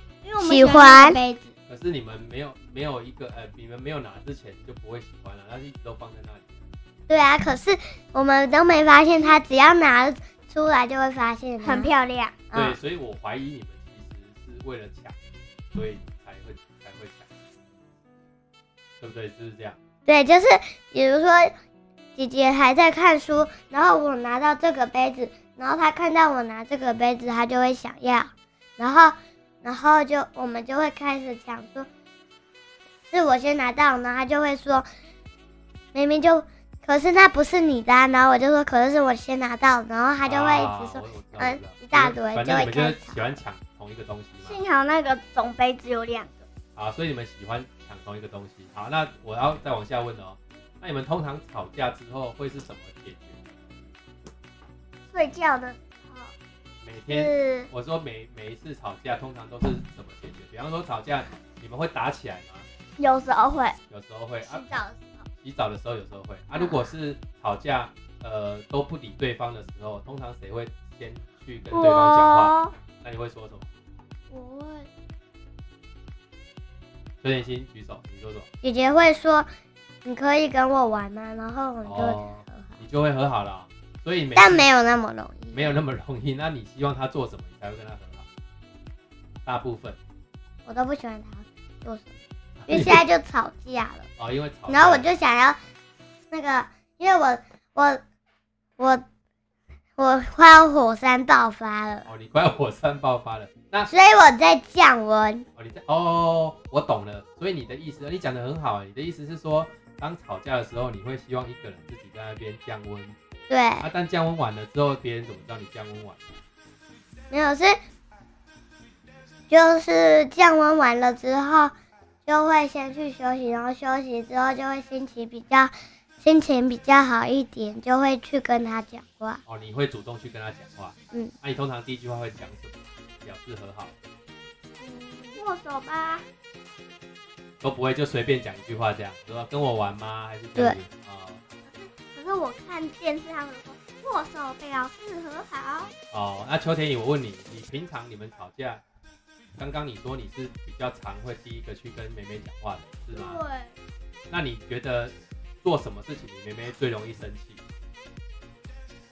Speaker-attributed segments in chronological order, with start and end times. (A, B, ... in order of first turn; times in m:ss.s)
0:00.2-0:01.6 A
0:00.4-0:01.2 B
0:01.7-0:06.6 C
0:07.1-0:11.9 B
0:11.6-0:12.4 A
0:12.5-0:12.8 B
0:12.5-0:15.2 C
0:15.7-0:17.3 C
0:19.0-0:19.8 C
0:20.0-0:21.5 B
0:22.2-0:31.9 B
0:33.1-0:34.8 B
0:35.9-0:43.2 B
0:40.2-0:44.6 C
0:44.4-0:46.4 A
0:46.8-0:53.4 C
0:55.1-0:56.3 A
0:56.8-1:02.7 C
0:57.1-0:57.7 A
1:03.0-1:03.8 A
1:03.9-1:04.6 C
1:04.4-1:05.3 A
1:05.4-1:13.7 C
1:11.7-1:12.7 A
1:14.3-1:14.9 A
1:17.2-1:18.5 C
1:18.6-1:19.5 B
1:20.0-1:22.8 B
1:21.8-1:24.7 C
1:24.3-1:25.8 B
1:25.5-1:28.3 C
1:29.4-1:30.0 C
1:30.6-1:34.1 B
1:32.6-1:33.0 C
1:34.2-1:35.1 C
1:34.7-1:35.6 B
1:36.3-1:38.0 B
1:38.8-1:39.0 B
1:40.0-1:42.1 B
1:42.0-1:43.9 C
1:43.9-1:45.5 B
1:45.6-1:53.2 C
1:53.5-1:53.8 B
1:53.8-1:56.2 C
1:57.3-1:57.8 B
1:59.5-2:01.7 B
2:02.2-2:09.4 B
2:09.4-2:13.9 C
2:14.8-2:16.2 A
2:17.6-2:21.4 C
2:21.6-2:25.9 A
2:26.1-2:28.8 C
2:29.6-2:33.4 C
2:33.1-2:33.7 A
2:34.3-2:37.6 C